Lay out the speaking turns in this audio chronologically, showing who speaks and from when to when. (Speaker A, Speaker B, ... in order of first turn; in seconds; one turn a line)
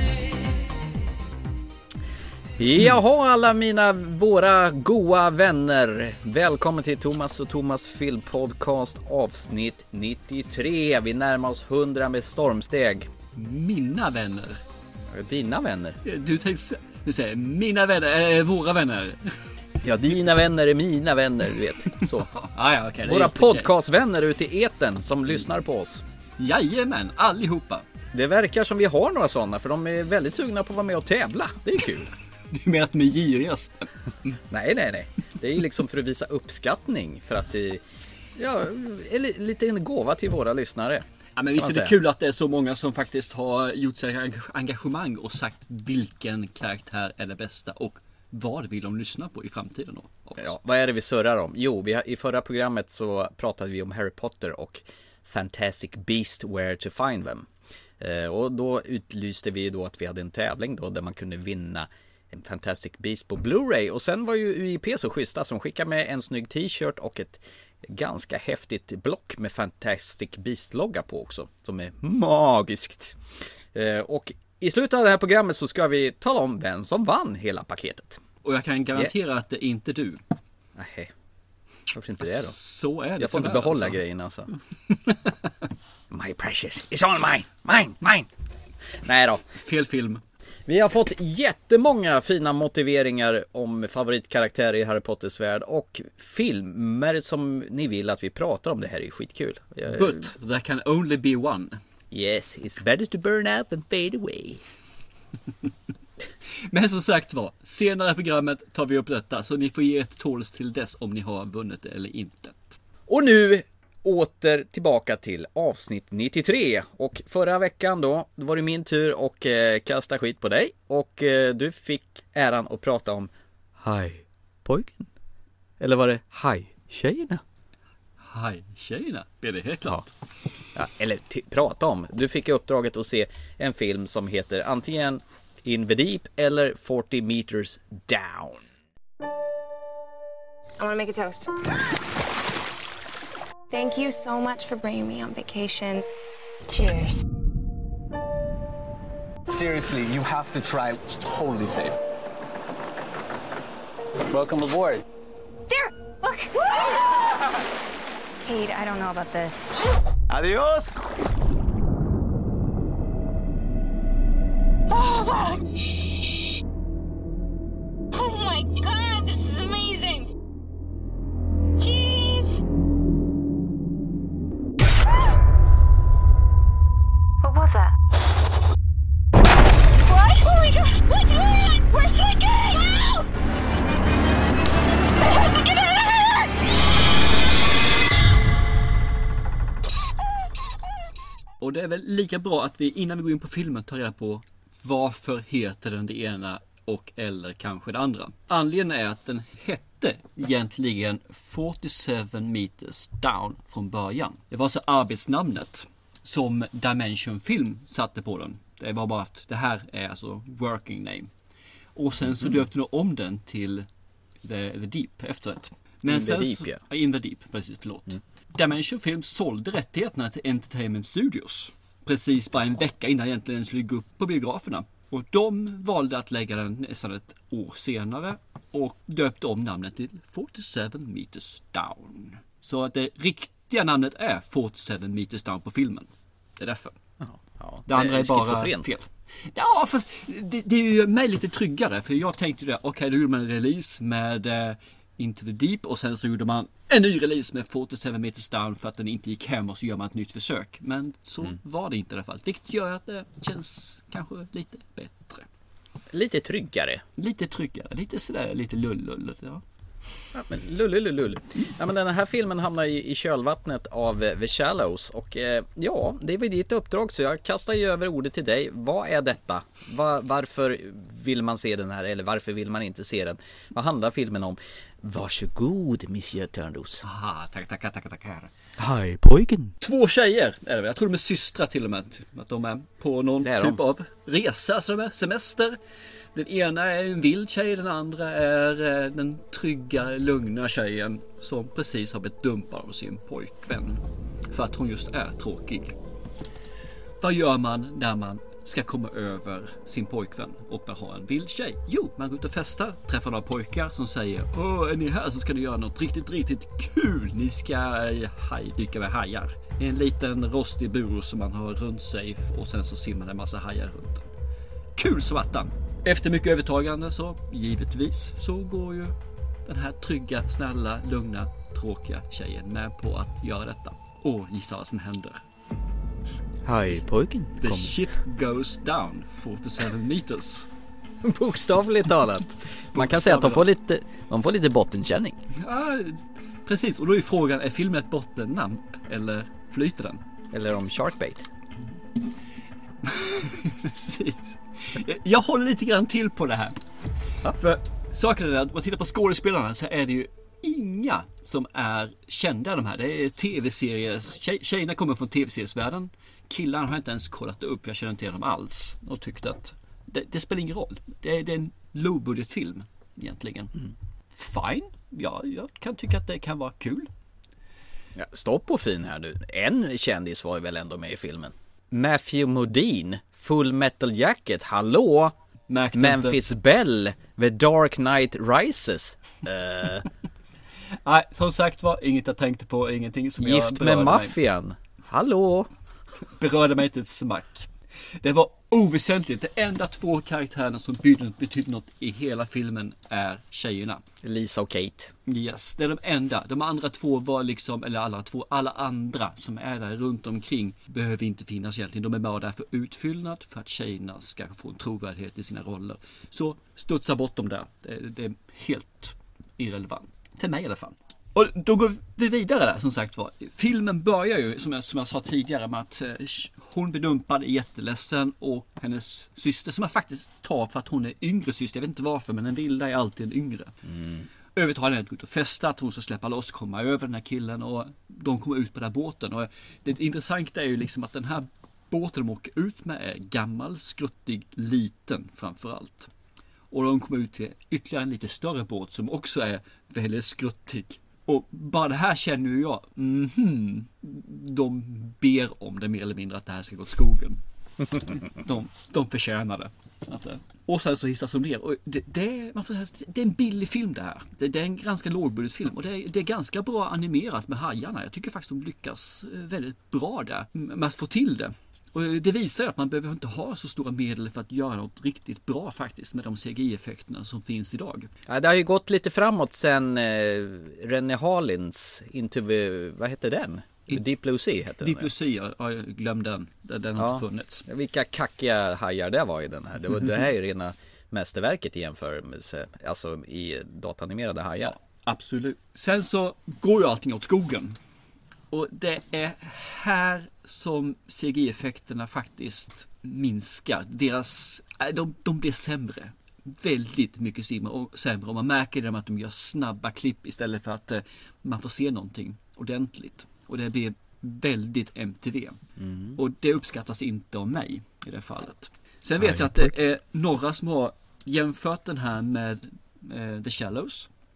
Speaker A: 2.6-13.1
Speaker B: 13.3-14.6
Speaker A: 15.1-16.0
Speaker B: 16.0-19.4
Speaker A: 19.8-22.3
Speaker B: 22.0-23.7
Speaker A: 23.0-26.0
Speaker B: 26.4-27.8
Speaker A: 28.1-32.1
Speaker B: 32.5-34.4
Speaker A: 34.5-37.8
Speaker A: 38.4-41.0
Speaker B: 41.4-50.5
Speaker A: 41.6-42.0
Speaker A: 50.4-57.5
Speaker A: 58.0-73.2
Speaker A: 73.7-78.2
Speaker B: 78.4-80.2
Speaker A: 80.8-81.1
Speaker A: 81.9-82.5
Speaker B: 82.2-84.0
Speaker A: 83.2-84.5
Speaker B: 85.1-85.3
Speaker A: 86.1-88.3
Speaker A: 88.9-89.5
Speaker B: 89.5-90.2
Speaker A: 90.7-100.3
Speaker B: 99.9-101.8
Speaker A: 102.1-104.6
Speaker B: 106.7-112.8
Speaker A: 113.1-125.1
Speaker A: 125.8-127.4
Speaker B: 128.2-130.1
Speaker A: 130.7-138.6
Speaker C: 140.8-141.8
Speaker C: 143.7-146.0
Speaker C: 146.7-147.2
Speaker D: 149.5-152.0
Speaker D: 154.3-155.0
Speaker C: 155.7-156.7
Speaker C: 158.4-159.8
Speaker D: 160.3-160.9
Speaker E: 164.9-165.6
Speaker E: 168.1-170.3
Speaker E: 171.8-172.6
Speaker C: 177.4-177.9
Speaker E: 180.0-183.2
Speaker E: 185.2-186.5
Speaker B: 191.6-211.3
Speaker B: 211.9-213.8
Speaker B: 214.4-236.9
Speaker A: 216.1-216.8
Speaker A: 237.2-238.9
Speaker B: 237.9-255.4
Speaker A: 256.1-257.0
Speaker B: 257.2-259.6
Speaker A: 260.3-277.0
Speaker B: 277.0-278.5
Speaker A: 278.8-279.8
Speaker B: 279.8-285.8
Speaker A: 283.4-283.8
Speaker B: 286.3-295.9
Speaker B: 297.2-314.3
Speaker B: 314.9-325.4
Speaker A: 326.6-328.0
Speaker B: 327.6-330.7
Speaker A: 331.2-335.4
Speaker B: 332.9-333.6
Speaker B: 335.5-340.2
Speaker A: 340.5-341.5
Speaker B: 343.0-346.8
Speaker B: 347.6-363.7
Speaker B: 364.3-367.1
Speaker A: 368.1-375.3
Speaker B: 375.7-376.4
Speaker A: 375.9-380.1
Speaker B: 381.0-384.4
Speaker A: 383.4-385.7
Speaker B: 386.4-394.0
Speaker A: 394.2-395.1
Speaker B: 395.2-423.7
Speaker A: 423.9-424.2
Speaker B: 424.6-436.1
Speaker B: 436.7-447.4
Speaker B: 448.0-468.1
Speaker A: 468.3-475.1
Speaker B: 474.8-477.6
Speaker A: 477.0-484.8
Speaker B: 484.6-487.8
Speaker B: 488.5-505.6
Speaker A: 505.8-506.2
Speaker B: 506.1-514.1
Speaker A: 509.2-509.7